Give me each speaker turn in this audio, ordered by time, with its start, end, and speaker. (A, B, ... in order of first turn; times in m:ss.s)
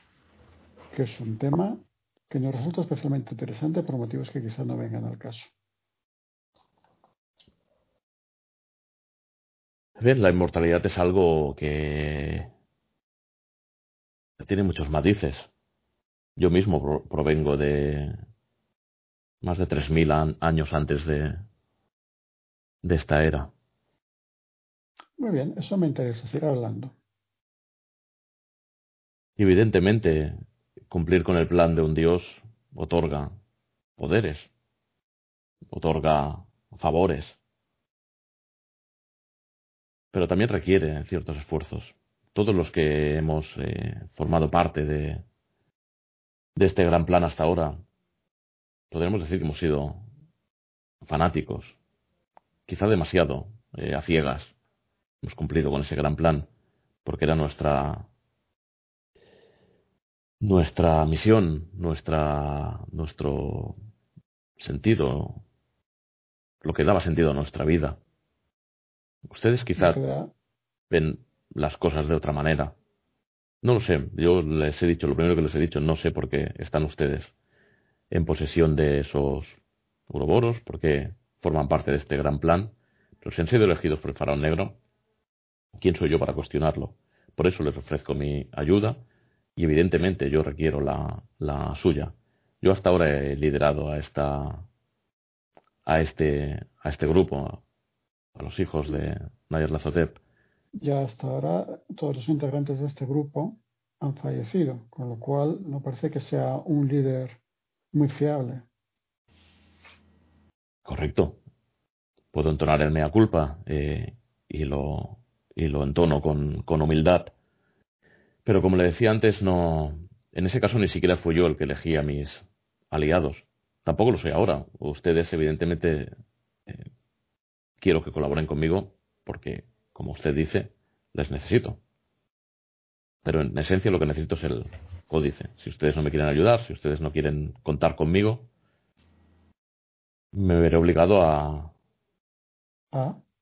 0:00.9-0:05.5 A
0:10.0-0:12.5 B
0:14.4-0:15.5 B
0:16.4-0:18.2 B
0:19.4-0:21.4 B
0:22.8-0:23.5 B
0:25.2-0:26.9 A
0:29.4-0:33.4 B
0:34.0-0:34.5 B
0:35.7-0:37.4 B
0:40.1-0:45.2 B
0:46.6-0:47.8 B
0:48.9-0:50.0 B
0:51.0-0:51.8 B
0:52.7-0:54.6 B
0:55.2-0:56.5 B
0:57.0-0:58.1 B
1:00.4-1:03.8 B
1:04.6-1:05.4 B
1:06.6-1:08.0 B
1:09.3-1:10.0 B
1:09.8-1:10.3 A
1:10.9-1:12.8 B
1:13.6-1:17.3 B
1:18.1-1:24.8 B
1:25.8-1:29.0 B
1:29.6-1:34.7 B
1:35.9-1:37.6 B
1:38.4-1:40.2 B
1:40.8-1:47.4 A
1:47.9-1:48.7 A
1:50.8-1:51.4 B
1:52.3-1:57.3 B
1:58.4-2:06.1 B
2:07.8-2:11.8 B
2:13.2-2:18.5 B
2:20.3-2:21.7 B
2:22.9-2:23.2 A